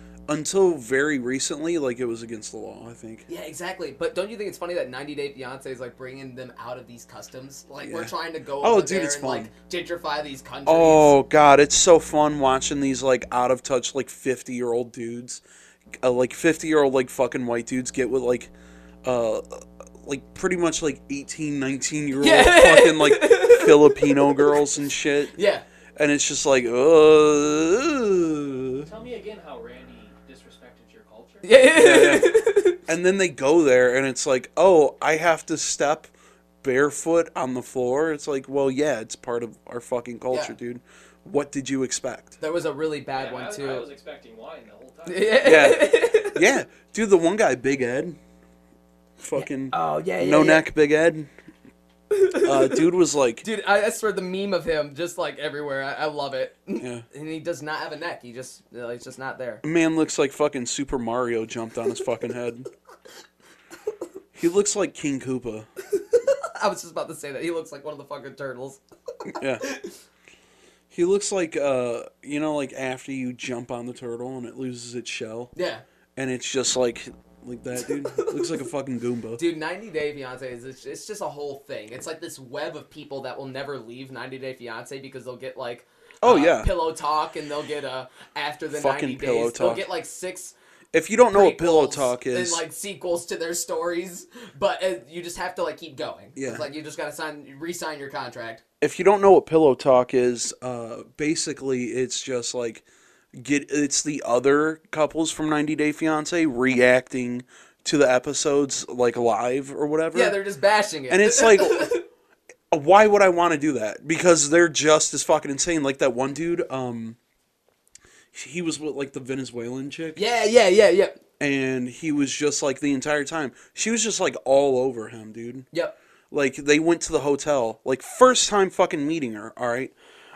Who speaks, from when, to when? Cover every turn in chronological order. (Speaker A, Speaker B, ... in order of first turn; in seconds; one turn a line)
Speaker A: 0.3-3.2
Speaker B: 3.3-11.2
Speaker A: 7.8-9.5
Speaker A: 10.7-15.4
Speaker A: 16.0-18.5
Speaker A: 19.0-25.3
Speaker B: 22.2-24.6
Speaker B: 25.3-25.6
Speaker A: 25.9-28.9
Speaker C: 28.8-31.5
Speaker B: 31.4-32.8
Speaker A: 31.7-32.3
Speaker A: 32.9-36.1
Speaker A: 36.6-42.3
Speaker B: 42.4-43.9
Speaker C: 43.1-45.5
Speaker B: 45.1-46.4
Speaker A: 45.4-48.2
Speaker A: 49.2-51.3
Speaker B: 49.4-50.7
Speaker B: 52.1-52.8
Speaker A: 52.4-53.4
Speaker B: 53.4-59.6
Speaker A: 56.8-57.0
Speaker A: 59.6-62.7
Speaker A: 64.3-65.7
Speaker B: 65.9-68.8
Speaker A: 69.4-69.6
Speaker B: 69.6-70.0
Speaker A: 70.9-75.5
Speaker B: 75.5-75.8
Speaker A: 76.2-79.4
Speaker B: 78.1-78.4
Speaker B: 79.4-90.5
Speaker A: 86.2-86.7
Speaker A: 88.7-89.9
Speaker A: 90.9-92.6
Speaker B: 91.3-98.6
Speaker A: 96.3-96.7
Speaker A: 98.8-110.4
Speaker B: 110.1-112.0
Speaker A: 111.1-112.0
Speaker A: 112.7-117.2
Speaker A: 118.3-120.2
Speaker B: 120.2-121.2
Speaker A: 121.4-125.7
Speaker A: 126.3-129.9